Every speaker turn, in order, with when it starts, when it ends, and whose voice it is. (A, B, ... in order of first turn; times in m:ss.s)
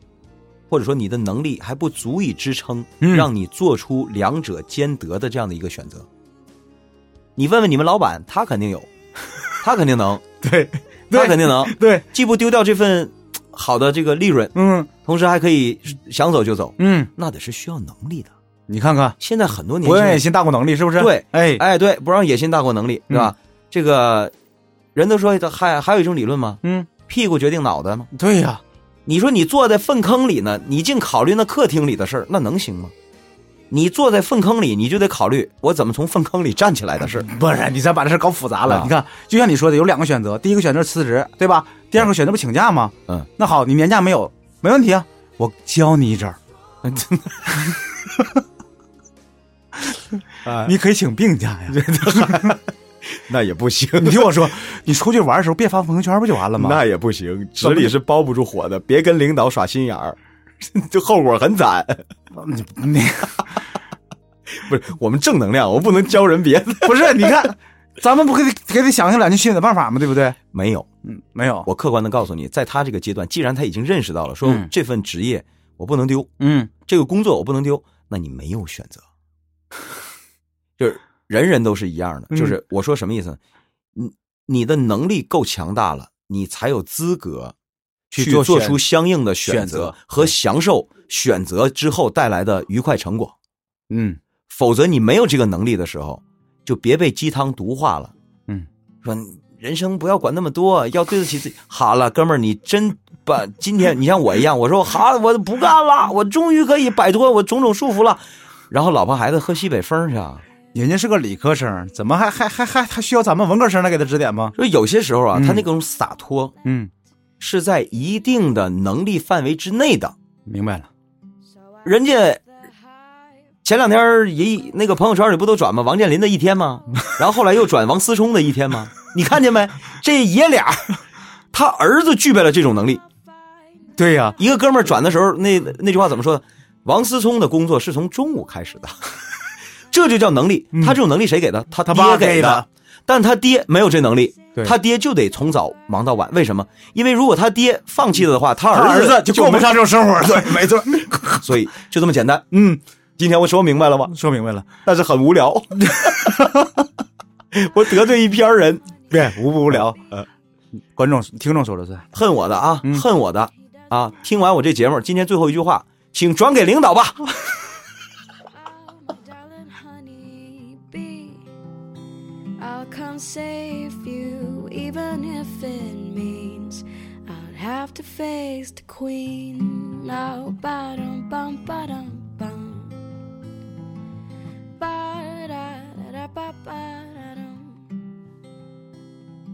0:00.7-0:06.1 A
0:03.0-0:03.3 B
0:07.4-0:08.9 A
0:09.6-0:10.2 A
0:10.4-0:12.0 B
0:11.1-0:18.3 A
0:14.5-0:14.9 B
0:16.8-0:17.1 B
0:18.7-0:19.2 B
0:19.2-0:20.3 A
0:19.8-0:21.6 B
0:21.0-0:24.3 A
0:24.9-0:28.1 A
0:26.6-0:26.9 B
0:28.1-0:28.6 B
0:29.0-0:32.9 A
0:33.7-0:37.3 A
0:37.2-0:46.4 B
0:38.7-0:38.9 A
0:47.0-0:48.4 B
0:50.4-0:50.7 A
0:50.6-0:52.6 B
0:51.7-0:54.5 A
0:54.0-0:56.8 B
0:56.5-1:02.1 A
0:57.6-0:57.9 B
1:02.3-1:03.5 B
1:04.5-1:07.4 A
1:06.8-1:10.4 B
1:10.5-1:10.9 A
1:11.0-1:11.7 B
1:11.6-1:19.0 A
1:14.4-1:14.7 B
1:16.4-1:16.7 B
1:20.8-1:23.4 A
1:22.3-1:22.6 B
1:23.9-1:27.5 A
1:28.1-1:33.3 A
1:28.1-1:28.8 B
1:29.4-1:30.0 B
1:33.9-1:34.2 B
1:34.5-1:38.1 A
1:39.0-1:50.4 A
1:50.7-1:54.5 B
1:54.5-1:56.5 A
1:55.3-1:55.6 B
1:56.6-1:56.9 B
1:57.4-2:00.2 A
2:00.5-2:00.9 B
2:01.4-2:03.6 C
2:01.8-2:02.4 A
2:03.6-2:11.0 A
2:11.5-2:13.0 A
2:14.0-2:14.4 B
2:14.4-2:19.1 A
2:19.9-2:32.5 A
2:20.7-2:21.0 B
2:21.8-2:22.7 B
2:28.7-2:31.4 B
2:32.5-2:32.8 B
2:33.2-2:34.1 A
2:34.1-2:34.7 B
2:34.8-2:36.3 A
2:35.8-2:36.8 B
2:37.5-2:38.8 A
2:39.1-2:40.0 B
2:40.9-2:42.0 B
2:42.1-2:47.3 A
2:48.5-2:51.4 C
2:52.6-3:03.0 C
3:04.8-3:07.9 C